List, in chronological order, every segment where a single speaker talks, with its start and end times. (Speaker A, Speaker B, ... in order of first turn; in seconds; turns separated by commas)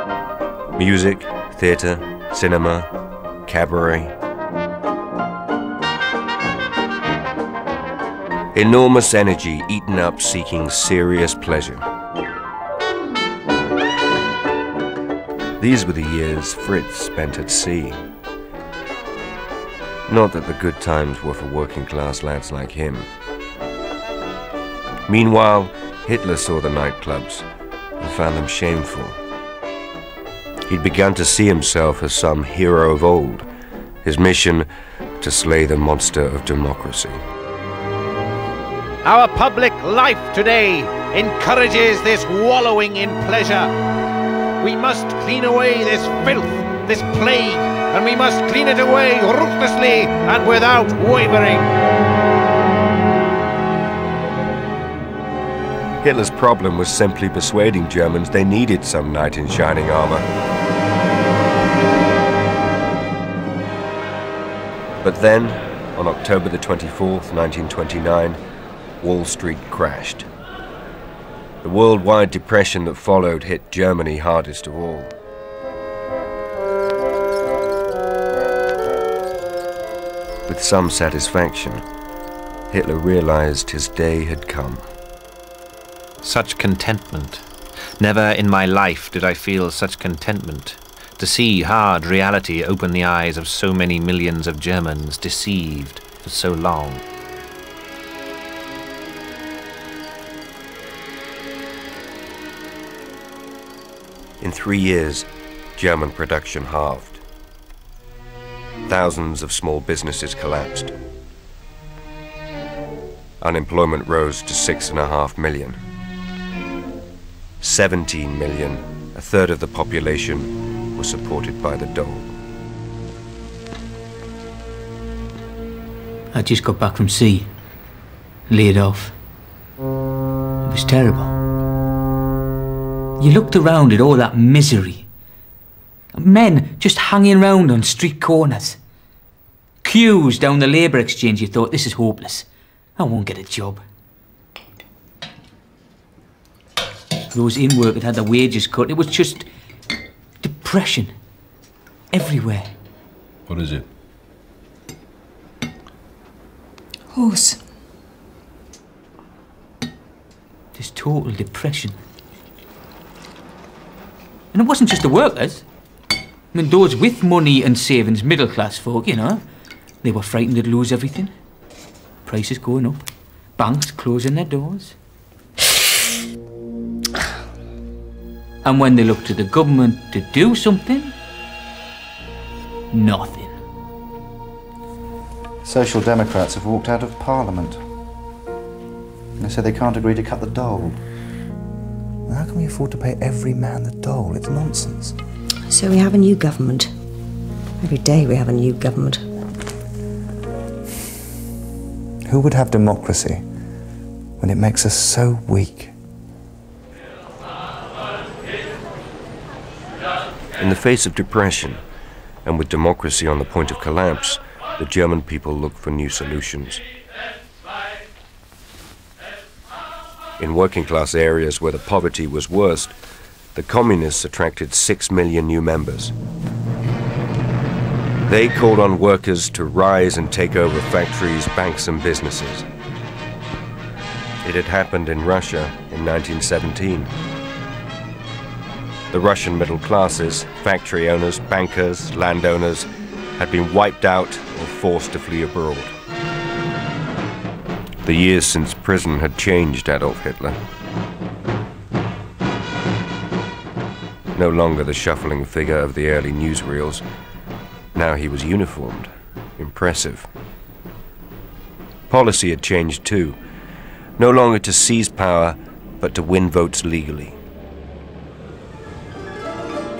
Speaker A: 0.8-2.9, Speaker A: 3.5-4.1, Speaker A: 8.5-11.8, Speaker A: 15.6-18.0, Speaker A: 20.1-23.1, Speaker A: 25.1-27.5, Speaker A: 28.0-29.2, Speaker A: 30.7-33.5, Speaker A: 34.0-34.7, Speaker A: 35.2-37.2, Speaker B: 39.0-43.7, Speaker B: 44.6-51.7, Speaker A: 56.0-60.3, Speaker A: 65.0-68.4, Speaker A: 69.0-70.3, Speaker A: 71.6-75.1, Speaker A: 80.5-81.8, Speaker A: 82.7-84.8, Speaker C: 86.2-87.4, Speaker C: 88.0-97.0, Speaker A: 104.4-107.2, Speaker A: 108.9-110.9, Speaker A: 113.4-115.8, Speaker A: 117.6-122.3, Speaker D: 126.3-127.5, Speaker D: 128.5-129.1, Speaker D: 130.6-131.3, Speaker D: 133.2-135.1, Speaker D: 136.1-138.8, Speaker D: 139.8-143.8, Speaker D: 147.3-149.4, Speaker D: 150.4-151.1, Speaker D: 152.1-152.7, Speaker D: 160.7-162.0, Speaker D: 164.5-165.6, Speaker D: 166.5-169.4, Speaker D: 170.0-171.3, Speaker D: 172.2-173.0, Speaker D: 173.6-174.9, Speaker D: 178.6-181.1, Speaker D: 182.9-183.5, Speaker E: 185.6-187.8, Speaker E: 189.4-191.0, Speaker E: 192.3-195.1, Speaker F: 195.7-196.9, Speaker F: 197.8-199.2, Speaker E: 202.3-203.4, Speaker E: 204.4-205.9, Speaker A: 210.6-211.8, Speaker A: 212.4-216.8, Speaker A: 220.4-222.9, Speaker A: 223.5-226.1, Speaker A: 228.2-232.7, Speaker A: 234.4-237.1, Speaker A: 239.1-245.9, Speaker A: 248.0-250.6, Speaker A: 254.3-257.0, Speaker A: 257.9-260.3, Speaker A: 262.1-263.4, Speaker A: 264.2-267.4